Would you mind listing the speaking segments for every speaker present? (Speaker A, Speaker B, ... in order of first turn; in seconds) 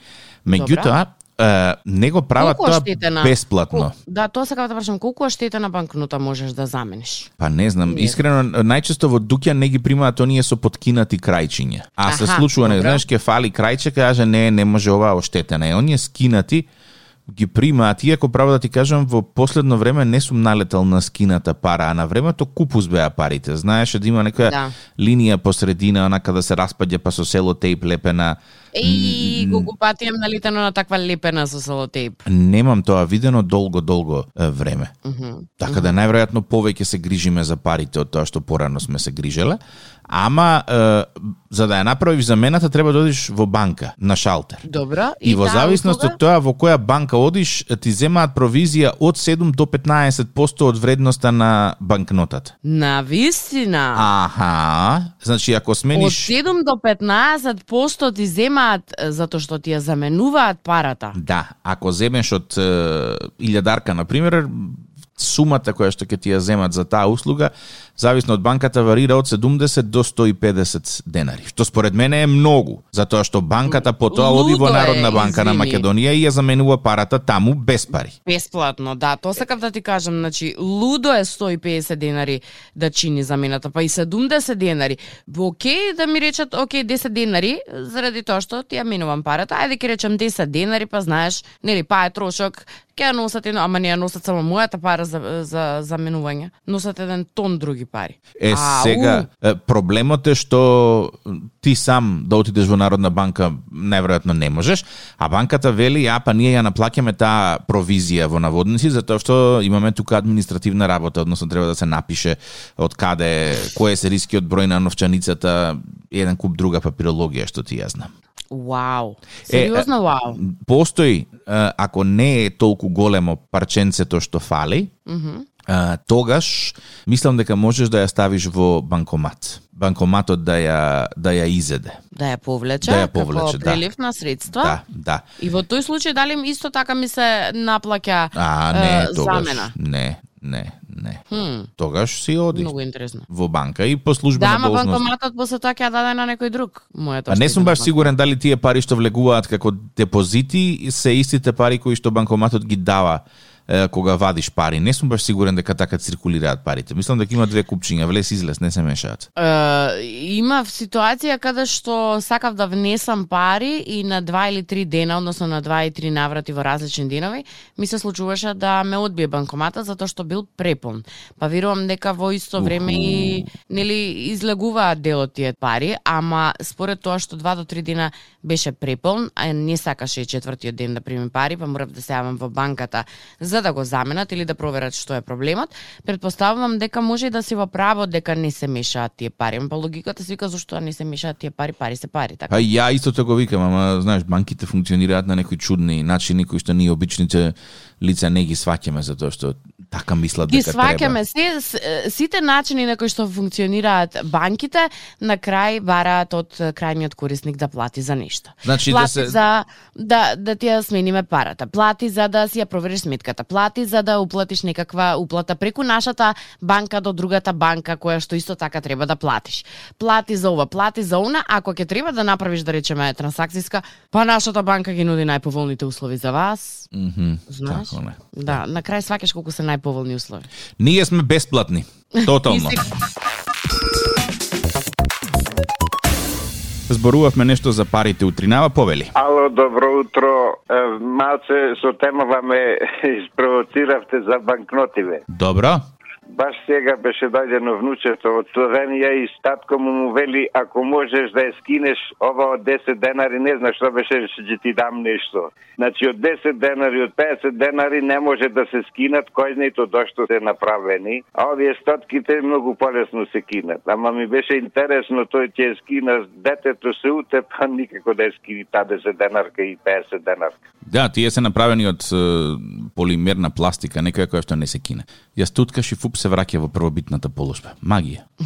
Speaker A: 0.5-3.9, 7.4-16.6, 17.3-29.7, 32.2-34.9, 35.6-44.6, 45.2-52.5, 53.9-56.3, 61.1-78.1, 98.4-118.1, 119.5-124.9, 125.7-132.0, 132.8-133.8, 134.5-135.2, 138.3-141.2, 141.8-142.7, 143.3-145.1, 147.3-159.3, 172.6-173.5, 192.5-201.2, 208.6-209.4, 226.9-228.6, 230.8-232.8, 236.9-239.1, 245.3-245.8, 270.9-278.2
Speaker B: 0.5-0.9, 2.4-7.3, 7.8-8.2, 12.1-13.0, 24.4-24.7, 28.7-32.2, 35.0-36.0, 44.6-46.2, 52.6-54.1, 55.9-61.2, 73.7-75.8, 78.2-99.3, 118.5-120.4, 125.0-125.5, 132.1-134.8, 135.4-139.7, 141.3-141.7, 142.5-143.3, 144.3-148.1, 159.4-192.6, 200.5-226.9, 227.5-230.5, 232.2-232.8
Speaker C: 239.1-245.2, 246.3-270.6